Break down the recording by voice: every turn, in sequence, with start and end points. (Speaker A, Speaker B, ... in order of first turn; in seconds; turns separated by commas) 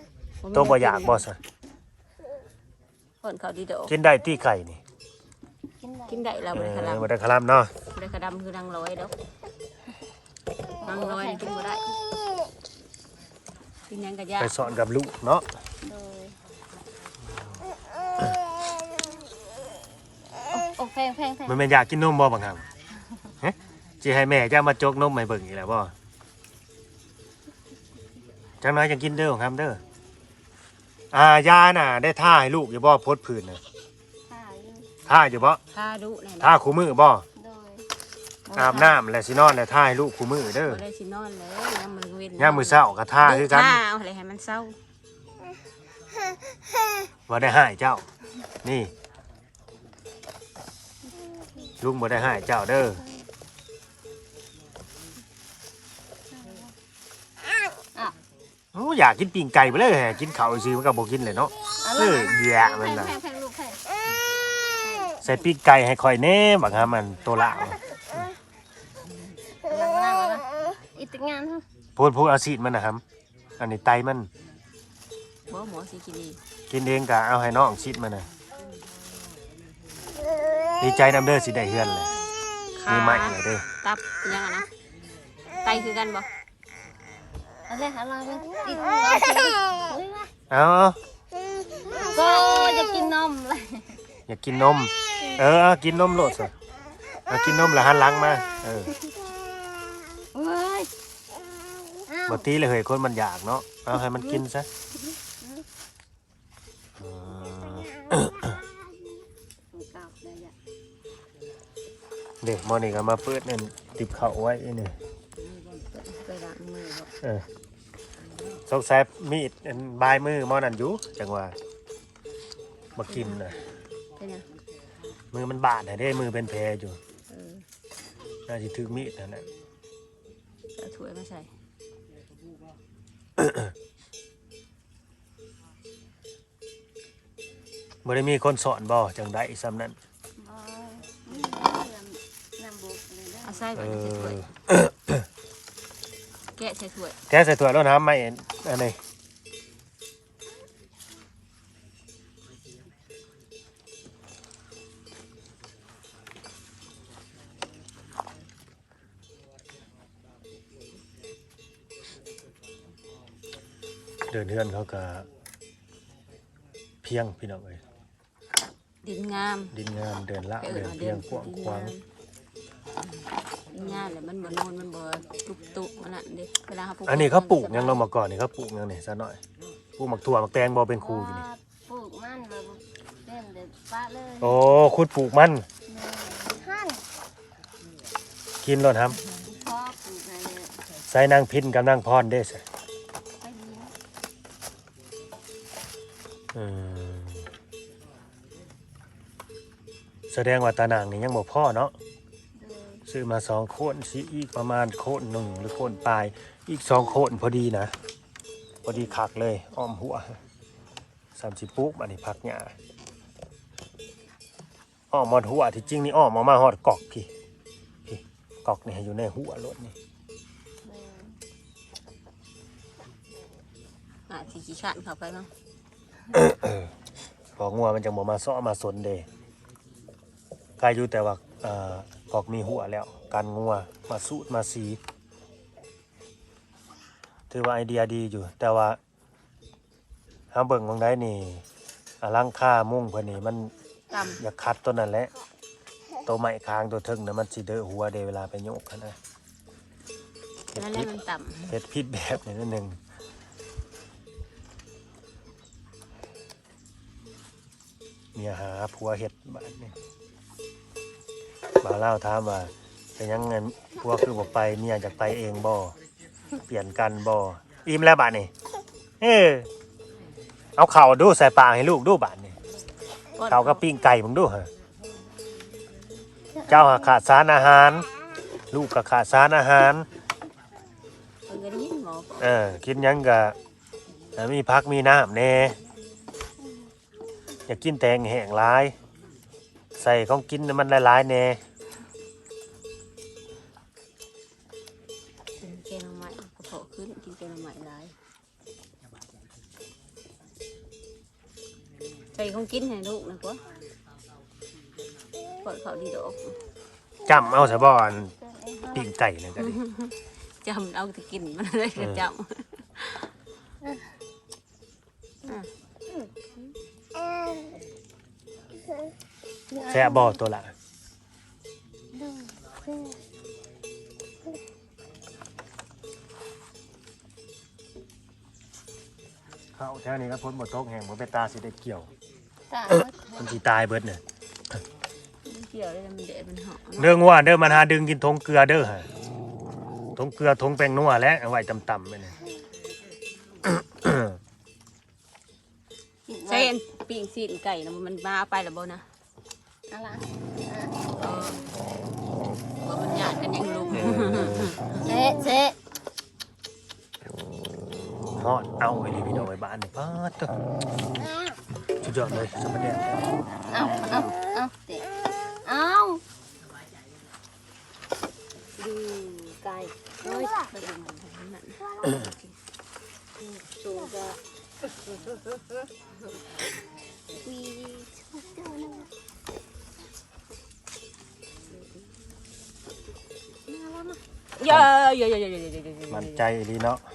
Speaker A: 0.4-1.2, Speaker B: 0.5-1.4, Speaker A: 3.2-3.9, Speaker B: 3.9-4.8, Speaker C: 5.8-6.2, Speaker A: 6.1-7.1, Speaker B: 6.5-7.7, Speaker A: 7.9-9.1, Speaker C: 10.8-11.6, Speaker A: 10.8-11.8, Speaker A: 13.9-14.7, Speaker B: 14.4-15.4, Speaker C: 15.8-16.4, Speaker C: 20.5-21.6, Speaker B: 21.4-22.6, Speaker B: 23.4-25.9, Speaker B: 28.6-29.8, Speaker B: 31.1-33.6, Speaker C: 34.3-35.0, Speaker B: 35.0-35.6, Speaker A: 35.7-36.6, Speaker B: 36.4-37.2, Speaker C: 37.4-37.8, Speaker A: 38.5-39.0, Speaker B: 38.5-40.8, Speaker A: 40.6-44.8, Speaker B: 42.4-43.8, Speaker B: 47.3-48.0, Speaker B: 48.6-48.9, Speaker B: 51.8-53.0, Speaker C: 56.3-56.7, Speaker B: 58.7-63.1, Speaker C: 61.8-63.8, Speaker C: 64.8-65.5, Speaker B: 65.2-67.8, Speaker C: 69.5-71.6, Speaker B: 72.0-73.0, Speaker B: 73.6-74.3, Speaker A: 75.5-76.4, Speaker B: 76.7-78.3, Speaker B: 80.8-82.1, Speaker A: 82.8-84.7, Speaker B: 82.9-83.6, Speaker A: 85.6-86.3, Speaker C: 87.7-90.3, Speaker B: 90.5-91.0, Speaker C: 91.9-93.9, Speaker B: 94.3-96.5, Speaker B: 97.3-98.9, Speaker C: 100.3-100.9, Speaker C: 102.1-102.4, Speaker B: 102.3-104.7, Speaker B: 107.0-108.6, Speaker C: 109.7-110.5, Speaker B: 112.4-115.0, Speaker A: 115.9-117.1, Speaker B: 117.2-117.5, Speaker B: 118.7-121.5, Speaker B: 122.9-123.6, Speaker A: 123.1-123.5, Speaker A: 124.2-124.5, Speaker B: 125.3-127.0, Speaker A: 127.3-127.6, Speaker B: 128.5-129.5, Speaker A: 130.8-131.5, Speaker B: 133.4-133.7, Speaker B: 138.0-140.0, Speaker C: 140.4-143.7, Speaker A: 143.4-144.5, Speaker B: 143.8-145.2, Speaker A: 146.6-147.2, Speaker B: 147.3-149.0, Speaker B: 164.3-165.3, Speaker B: 167.0-167.8, Speaker A: 169.0-169.7, Speaker B: 169.7-171.9, Speaker A: 170.6-172.0, Speaker A: 173.7-178.0, Speaker B: 177.1-179.4, Speaker B: 180.0-181.4, Speaker C: 180.9-184.6, Speaker B: 184.4-185.7, Speaker C: 185.9-187.0, Speaker B: 188.6-189.2, Speaker C: 189.5-190.8, Speaker B: 191.1-192.6, Speaker C: 193.4-193.9, Speaker B: 196.5-197.5, Speaker B: 200.3-201.9, Speaker C: 202.5-203.0, Speaker B: 203.1-207.9, Speaker B: 208.8-210.4, Speaker B: 211.3-212.7, Speaker B: 215.1-217.3, Speaker B: 218.1-219.9, Speaker C: 220.8-221.4, Speaker A: 224.3-225.5, Speaker B: 226.3-226.9, Speaker B: 227.6-229.3, Speaker B: 230.8-235.0, Speaker B: 237.5-239.0, Speaker B: 240.5-241.6, Speaker B: 242.2-243.7, Speaker A: 244.1-244.4, Speaker B: 244.4-245.3, Speaker B: 246.2-249.2, Speaker B: 250.7-251.1, Speaker A: 250.7-251.7, Speaker B: 251.7-253.0, Speaker B: 258.3-259.9, Speaker B: 261.8-265.9, Speaker B: 266.6-268.5, Speaker B: 269.2-269.7, Speaker B: 270.8-272.6, Speaker A: 273.4-273.8, Speaker B: 273.5-274.7, Speaker C: 276.5-277.1, Speaker B: 276.7-278.1, Speaker B: 278.7-280.1, Speaker A: 281.5-282.5, Speaker B: 282.4-283.6, Speaker B: 284.3-285.8, Speaker C: 286.6-286.9, Speaker B: 287.7-288.9, Speaker B: 289.9-291.6, Speaker A: 295.6-298.1, Speaker A: 302.3-303.6, Speaker A: 305.6-306.6, Speaker B: 307.2-308.3, Speaker C: 308.3-309.1, Speaker B: 308.9-309.8, Speaker A: 309.6-313.3, Speaker B: 312.0-312.2, Speaker C: 319.7-320.4, Speaker B: 319.9-320.7, Speaker C: 322.1-323.2, Speaker B: 329.7-332.1, Speaker C: 332.7-333.5, Speaker B: 332.9-334.2, Speaker A: 335.4-337.1, Speaker B: 337.0-339.1, Speaker B: 340.1-342.4, Speaker B: 343.6-344.4, Speaker C: 346.3-346.7, Speaker A: 346.5-349.0, Speaker C: 349.9-351.0, Speaker A: 351.2-351.6, Speaker A: 352.8-354.9, Speaker B: 353.9-354.7, Speaker C: 355.0-355.8, Speaker B: 358.3-360.6, Speaker B: 362.0-363.2, Speaker C: 363.7-365.1, Speaker C: 365.6-366.2, Speaker C: 368.8-370.9, Speaker A: 370.8-372.5, Speaker C: 373.4-374.4, Speaker C: 377.3-379.1, Speaker C: 383.7-384.2, Speaker A: 384.6-386.4, Speaker B: 386.1-387.0